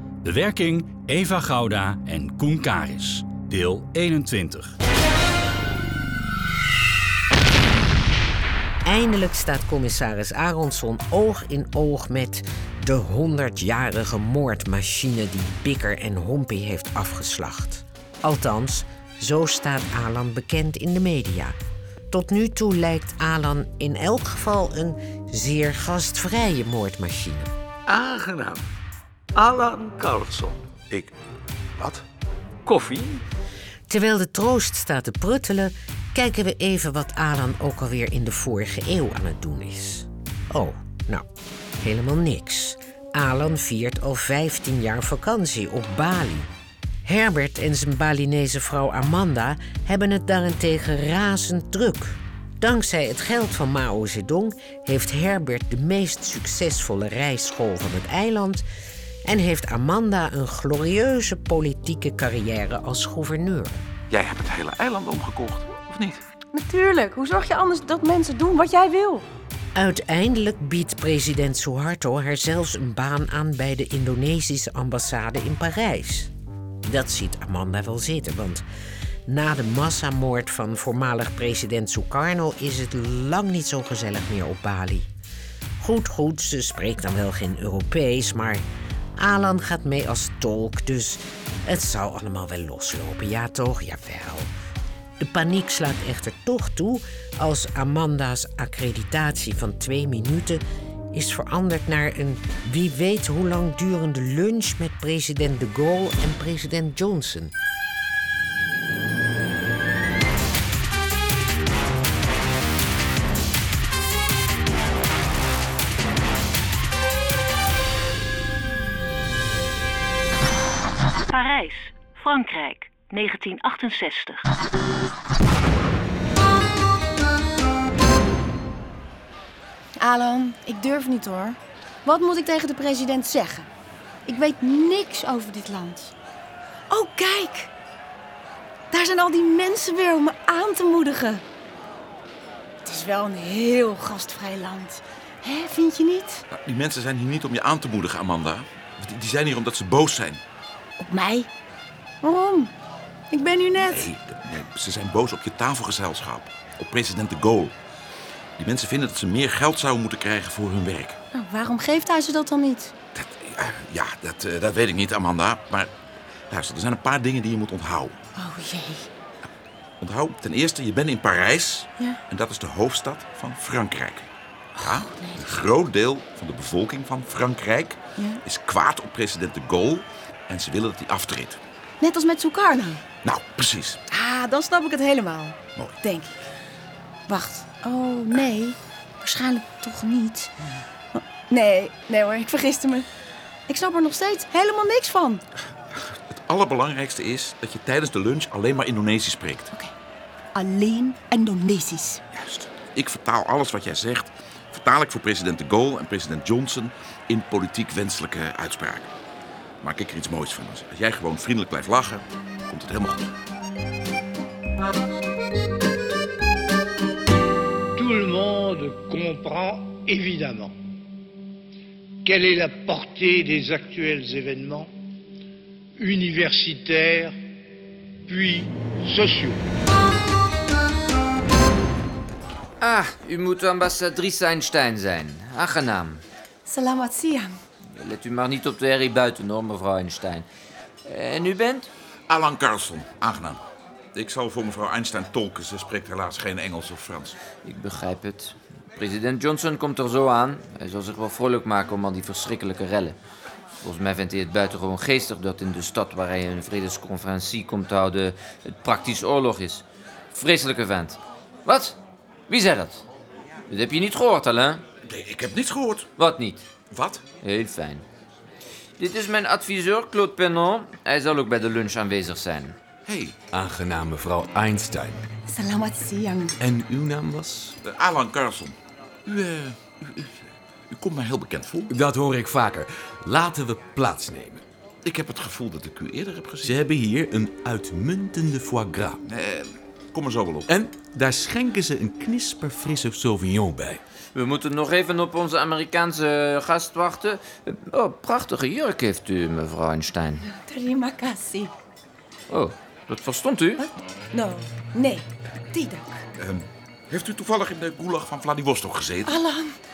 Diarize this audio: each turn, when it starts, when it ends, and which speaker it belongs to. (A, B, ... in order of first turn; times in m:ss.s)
0:00.2-0:04.8 A
0:08.8-0:21.6 B
0:22.1-0:27.5 B
0:27.8-0:28.7 C
0:29.3-0:30.6 C
0:32.6-0:33.2 C
0:33.9-0:41.3 B
0:41.8-0:46.5 B
0:47.0-0:58.6 B
0:59.2-1:03.8 B
1:04.1-1:06.2 D
1:06.5-1:09.2 E
1:09.7-1:16.3 B
1:16.8-1:18.6 B
1:19.3-1:25.1 B
1:25.8-1:34.5 B
1:35.2-1:40.6 B
1:41.1-1:47.5 B
2:01.3-2:04.5 F
2:10.0-2:13.7 E
2:14.2-2:16.1 E
2:16.9-2:17.7 E
2:18.9-2:21.4 E
2:22.8-2:26.4 E
2:26.5-2:30.4 D
2:31.0-2:31.5 E
2:32.2-2:32.7 E
2:33.3-2:34.1 E
2:33.8-2:37.7 D
2:38.6-2:41.2 D
2:41.3-2:42.9 E
2:43.1-2:45.9 D
2:46.5-2:48.2 D
2:48.4-2:49.1 E
2:50.0-3:01.6 D
2:54.8-2:55.6 E
3:02.0-3:03.0 E
3:03.2-3:04.0 D
3:04.1-3:06.4 E
3:07.3-3:10.5 E
3:11.1-3:13.0 E
3:13.7-3:15.4 E
3:16.3-3:19.7 D
3:20.5-3:22.2 E
3:22.3-3:29.1 D
3:29.8-3:33.3 D
3:37.9-3:40.8 G
3:42.2-3:44.9 G
3:46.0-3:47.4 G
3:48.3-3:49.6 G
3:52.8-3:56.2 H
3:56.6-3:57.6 E
3:57.9-4:00.4 H
4:01.0-4:01.9 H
4:02.3-4:03.6 D
4:04.1-4:07.4 D
4:07.6-4:13.2 H
4:13.8-4:22.0 H
4:22.5-4:23.0 H
4:23.7-4:24.8 H
4:25.0-4:26.1 D
4:26.2-4:26.6 H
4:26.9-4:27.2 D
4:27.4-4:28.0 H
4:29.0-4:32.8 H
4:33.0-4:33.4 D
4:33.5-4:35.2 I
4:35.5-4:36.6 E
4:36.6-4:37.8 I
4:37.8-4:40.1 D
4:40.9-4:41.9 D
4:41.9-4:44.6 I
4:45.0-4:46.8 D
4:46.6-4:49.2 I
4:49.2-4:50.7 D
4:50.7-4:54.0 I
4:54.3-5:00.4 H
5:00.4-5:01.7 E
5:02.5-5:03.8 H
5:03.8-5:06.2 E
5:06.4-5:09.4 D
5:09.2-5:09.8 E